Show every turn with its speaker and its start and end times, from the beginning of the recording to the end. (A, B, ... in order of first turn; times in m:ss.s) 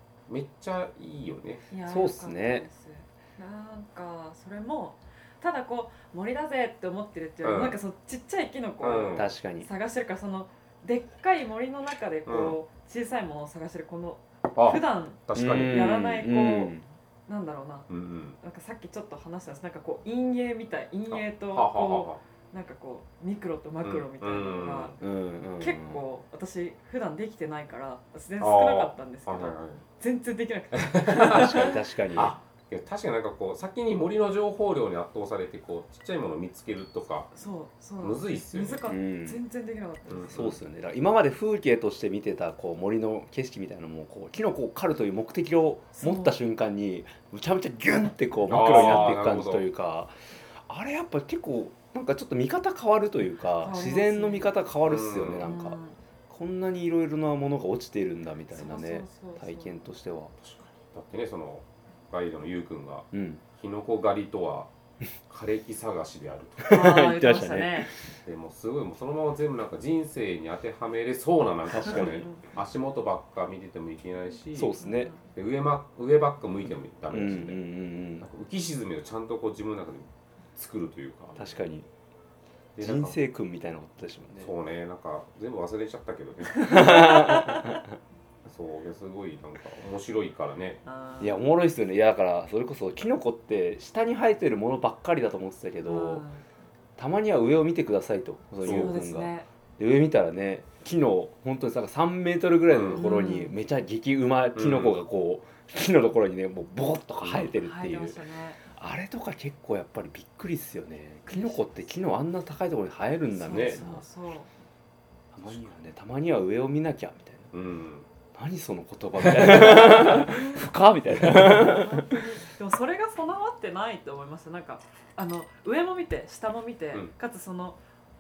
0:00.3-0:01.7 A
0:01.7-0:16.8 B
0:01.9-0:02.7 C
0:07.4-0:07.8 A
0:08.8-0:09.3 A
0:09.2-0:09.7 C
0:12.3-0:12.6 A
0:14.6-0:16.0 A
0:15.3-0:16.9 C
0:17.3-0:25.0 B
0:17.9-0:18.4 A
0:21.1-0:22.2 A
0:23.8-0:25.0 A
0:25.0-0:26.0 C
0:25.5-0:31.8 B
0:28.4-0:29.8 A
0:30.7-0:37.3 A
0:31.2-0:32.4 C
0:37.3-0:40.4 B
0:38.0-0:38.9 A
0:38.9-0:39.4 C
0:40.1-0:40.6 A
0:40.3-0:50.1 C
0:46.0-0:46.4 B
0:48.5-0:49.7 A
0:50.7-1:00.3 C
0:53.6-0:54.5 B
0:54.9-0:55.5 A
0:55.4-0:56.0 B
0:58.5-0:59.8 B
1:00.4-1:04.7 A
1:03.1-1:03.4 C
1:05.3-1:06.7 A
1:06.6-1:07.9 C
1:06.7-1:07.9 B
1:08.2-1:14.8 A
1:11.7-1:12.2 C
1:12.0-1:12.4 B
1:14.6-1:15.1 C
1:14.8-1:15.2 B
1:15.3-1:17.6 A
1:17.1-1:18.3 C
1:18.2-1:21.5 A
1:21.4-1:21.9 C
1:22.8-1:23.2 A
1:22.8-1:24.5 C
1:24.4-1:27.2 A
1:26.6-1:28.0 C
1:26.6-1:27.8 B
1:28.4-1:30.8 A
1:30.8-1:31.4 B
1:31.2-1:36.2 C
1:35.8-1:36.4 B
1:37.0-1:48.2 C
1:38.6-1:39.0 A
1:38.6-1:39.5 B
1:42.7-1:43.0 A
1:42.9-1:43.6 B
1:44.6-1:45.0 A
1:47.2-1:47.5 A
1:47.6-1:48.6 B
1:48.7-1:54.0 C
1:51.3-1:51.7 B
1:53.4-1:54.5 B
1:53.5-1:53.8 A
1:55.3-1:57.5 C
1:57.5-1:58.1 A
1:58.4-2:02.2 C
1:59.2-2:00.4 A
2:01.5-2:07.8 B